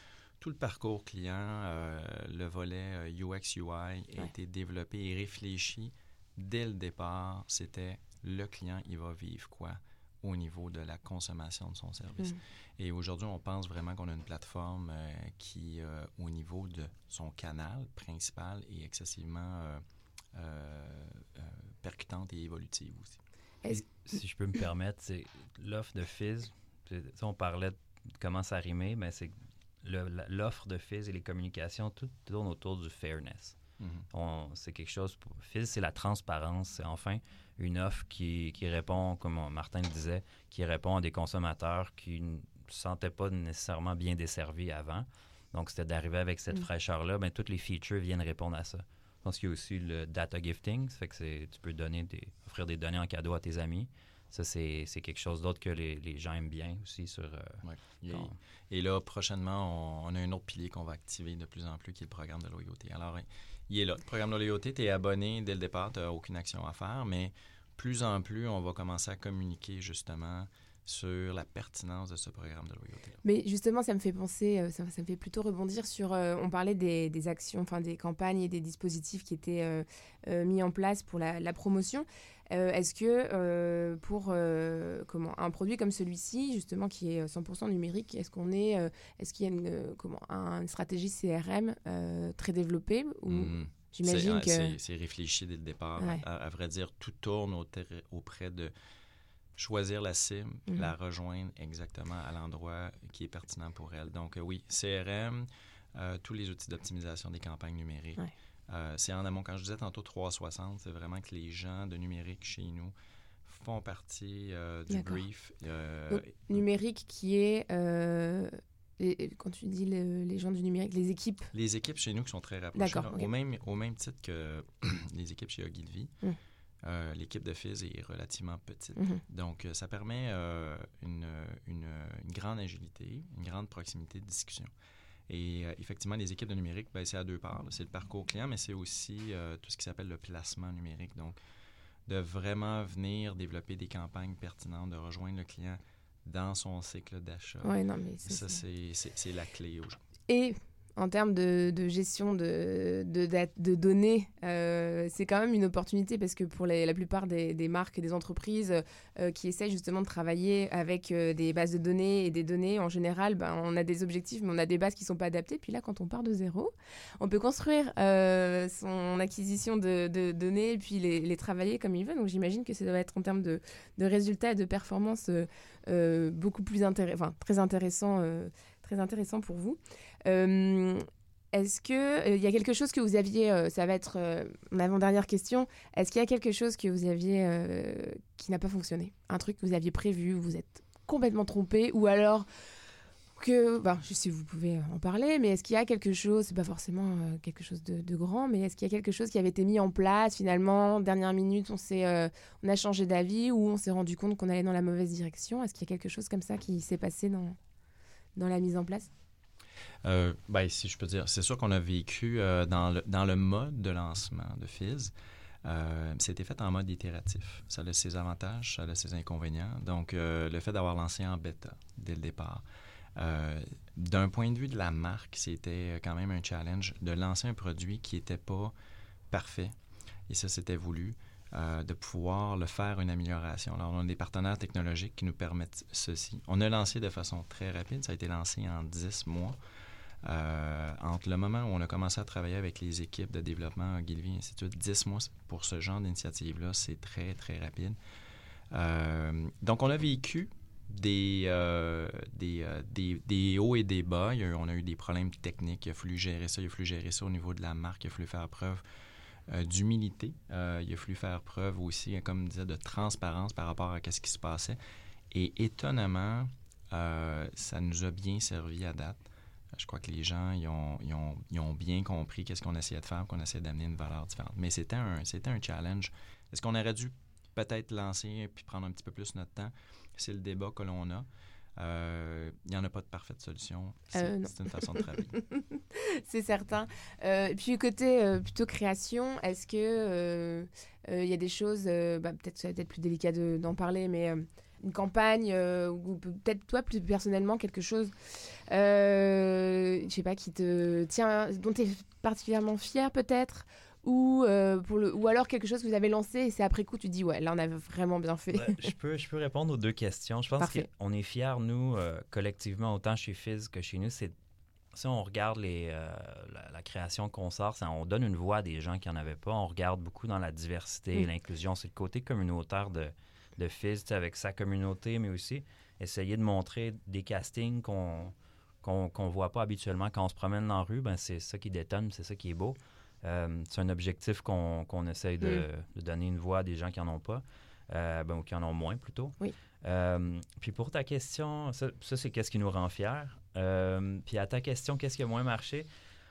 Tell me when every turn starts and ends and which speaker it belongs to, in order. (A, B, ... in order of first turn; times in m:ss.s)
0:00.4-0:23.2 A
0:23.7-0:33.6 B
0:33.8-0:34.1 A
0:34.1-0:58.4 B
0:57.6-1:13.2 A
1:13.2-1:34.8 C
1:33.3-1:38.7 A
1:36.0-1:36.2 C
1:39.6-1:56.6 A
1:54.9-1:55.2 C
1:56.1-2:01.5 C
2:01.5-2:06.1 A
2:02.8-2:03.3 C
2:06.8-2:14.7 A
2:09.0-2:09.2 C
2:15.3-2:21.4 A
2:22.1-2:30.0 A
2:27.6-2:28.6 C
2:30.3-3:12.5 C
3:13.4-3:27.6 C
3:28.4-3:29.1 C
3:30.0-3:35.1 A
3:35.6-3:42.6 A
3:43.2-3:48.7 A
3:49.3-3:49.8 A
3:50.3-3:59.6 A
4:00.2-4:08.0 A
4:08.7-4:18.8 A
4:19.5-4:24.8 A
4:25.3-4:41.3 A
4:41.8-4:45.4 A
4:44.1-5:08.9 C
5:08.5-5:14.3 B
5:10.6-5:10.9 C
5:14.9-5:45.9 B